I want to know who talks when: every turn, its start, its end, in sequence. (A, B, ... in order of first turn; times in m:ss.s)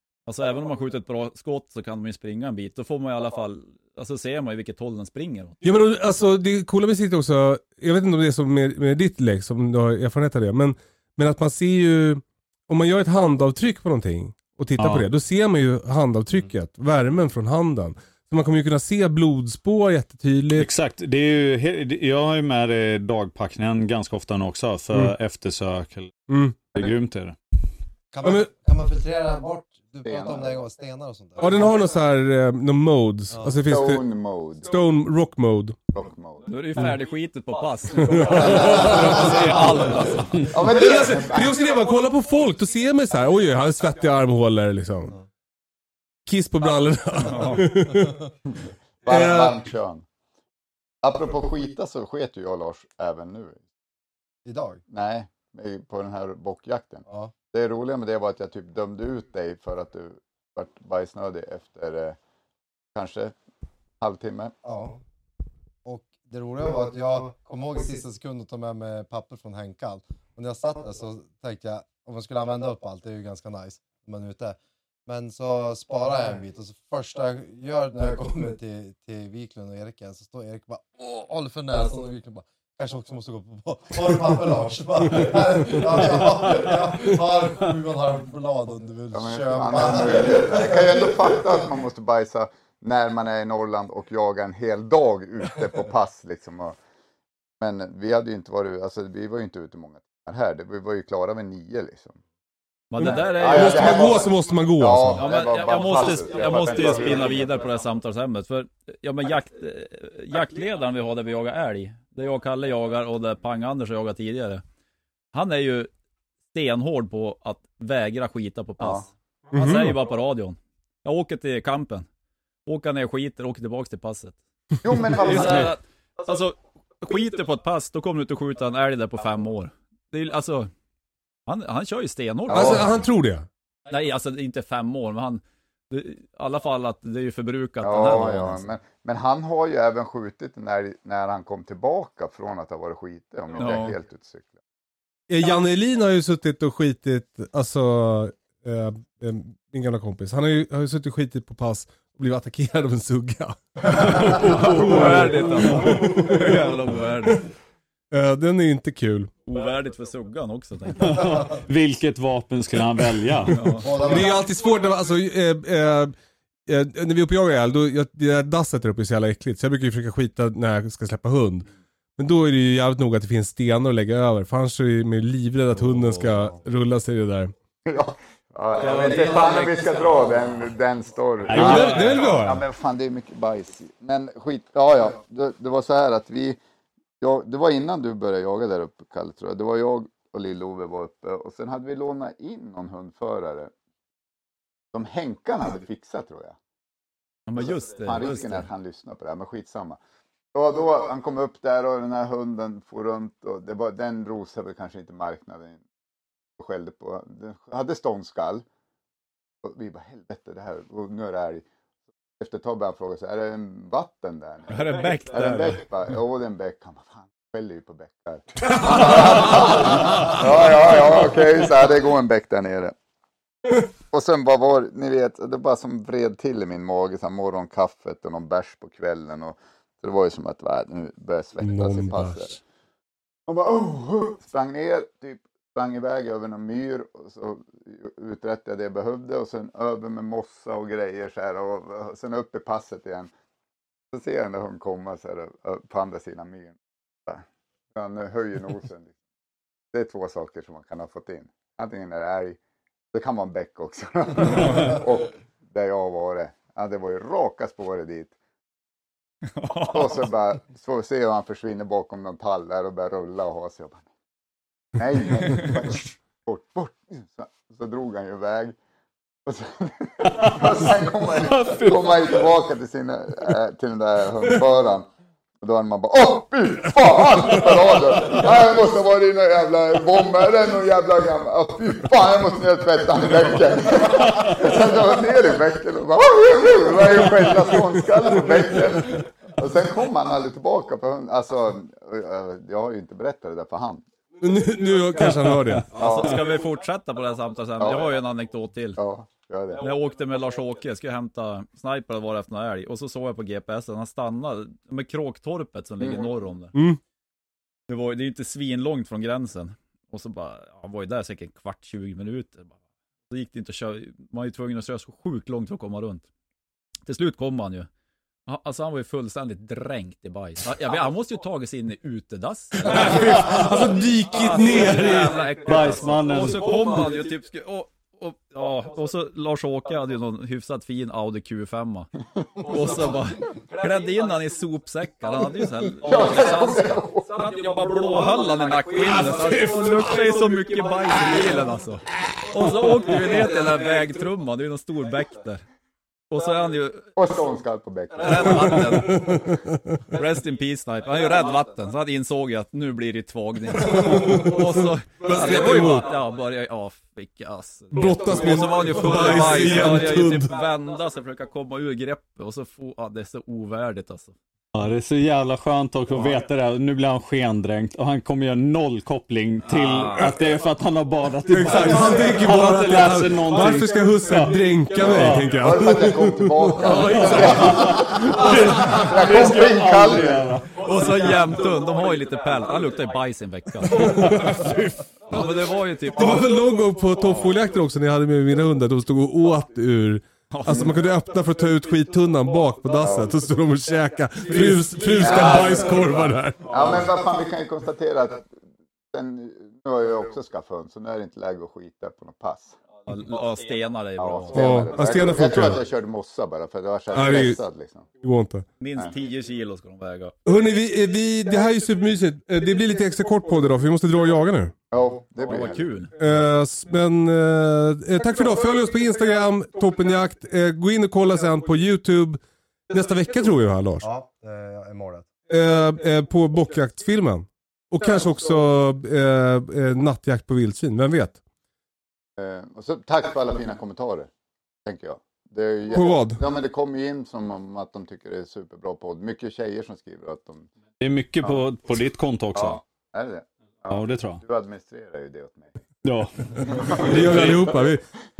0:00.2-0:05.6 A
0:05.6-0:20.7 B
0:14.8-0:15.0 C
0:20.5-0:26.1 C
0:26.3-0:26.6 B
0:26.7-0:27.4 C
0:28.1-0:31.7 D
0:28.2-0:28.5 B
0:30.0-0:30.6 E
0:31.4-0:34.0 B
0:33.3-0:33.6 D
0:33.7-0:34.7 E
0:34.6-0:35.8 B
0:35.9-0:36.5 E
0:36.4-0:40.5 A
0:38.1-0:39.8 B
0:38.4-0:39.4 E
0:40.4-0:41.5 E
0:40.5-0:45.1 B
0:46.2-0:48.2 B
0:47.2-0:47.6 A
0:49.0-0:50.0 E
0:49.1-0:49.6 B
0:51.0-0:53.6 E
0:54.4-0:54.8 D
0:54.9-1:02.2 E
0:57.1-0:57.3 D
1:02.9-1:03.3 E
1:04.0-1:04.5 E
1:04.6-1:05.0 D
1:05.8-1:31.4 D
1:29.1-1:36.8 E
1:37.6-1:42.2 E
1:42.9-1:44.2 A
1:43.0-1:45.2 B
1:43.0-1:47.5 E
1:45.2-1:54.6 A
1:55.3-1:55.9 A
1:56.5-2:02.0 A
1:58.8-1:59.0 E
1:59.5-1:59.9 B
2:02.6-2:04.4 A
2:04.8-2:05.7 E
2:05.2-2:10.7 A
2:11.4-2:12.9 A
2:12.5-2:12.9 E
2:12.5-2:13.5 B
2:13.9-2:18.6 A
2:17.8-2:24.6 E
2:23.6-2:24.0 A
2:25.3-2:36.6 B
2:33.9-2:35.9 C
2:34.7-2:37.5 A
2:38.1-2:39.3 B
2:39.4-2:41.2 A
2:41.0-2:43.6 C
2:43.5-2:43.9 A
2:43.8-2:44.3 D
2:44.0-2:46.1 B
2:46.6-2:57.5 B
2:57.8-3:06.6 E
2:58.7-3:00.4 A
3:01.4-3:02.0 C
3:01.5-3:02.6 B
3:01.6-3:02.0 A
3:07.2-3:13.7 E
3:14.9-3:16.6 E
3:17.5-3:18.7 A
3:17.6-3:20.0 E
3:20.5-3:25.8 E
3:26.6-3:28.6 E
3:29.6-3:31.6 E
3:32.4-3:42.9 E
3:34.7-3:35.8 A
3:38.9-3:39.3 B
3:44.1-3:52.6 E
3:51.6-3:52.4 B
3:53.5-4:03.3 E
4:04.1-4:09.1 E
4:09.9-4:12.6 E
4:13.1-4:18.3 E
4:19.5-4:20.3 A
4:19.7-4:24.0 E
4:24.9-4:28.8 E
4:29.4-4:35.1 E
4:31.4-4:32.4 C
4:35.6-4:54.0 E
4:54.4-4:55.9 B
4:55.9-4:59.0 A
4:55.9-4:56.4 E
4:57.8-4:58.1 E
4:59.0-4:59.8 E
4:59.8-5:06.7 A
5:06.7-5:07.0 B
5:07.9-5:12.8 A
5:13.3-5:16.2 A
5:17.1-5:17.9 A
5:18.4-5:32.1 A
5:22.8-5:25.4 B
5:25.6-5:26.8 C
5:32.6-5:45.6 A
5:36.0-5:37.3 E
5:39.3-5:40.2 B
5:46.3-5:47.1 A
5:47.2-5:48.9 E
5:48.2-5:49.3 A
5:48.6-5:50.0 B
5:50.1-6:04.4 A
5:53.8-5:56.0 B
5:57.9-6:00.5 B
6:04.7-6:15.5 C
6:09.7-6:10.3 A
6:11.5-6:19.0 B
6:15.5-6:20.6 E
6:16.8-6:18.0 A
6:17.3-6:20.8 C
6:20.8-6:24.4 A
6:23.9-6:25.0 B
6:25.3-6:26.5 A
6:26.1-6:37.0 B
6:30.5-6:31.0 A
6:33.0-6:33.3 E
6:35.1-6:38.5 E
6:39.1-6:42.8 E
6:43.0-6:44.9 A
6:44.2-6:48.1 E
6:44.5-6:45.8 B
6:47.1-6:47.6 B
6:48.2-6:48.6 B
6:48.8-6:50.3 A
6:50.4-6:54.7 B
6:54.9-6:55.9 E
6:55.4-6:56.1 A
6:56.2-7:04.1 B
7:04.0-7:05.3 D
7:05.5-7:11.4 B
7:12.4-7:14.3 E
7:14.8-7:20.7 E
7:15.9-7:16.4 B
7:21.0-7:22.8 C
7:22.5-7:25.7 E
7:23.9-7:24.4 C
7:26.0-7:27.7 C
7:26.6-7:28.0 B
7:26.7-7:27.2 E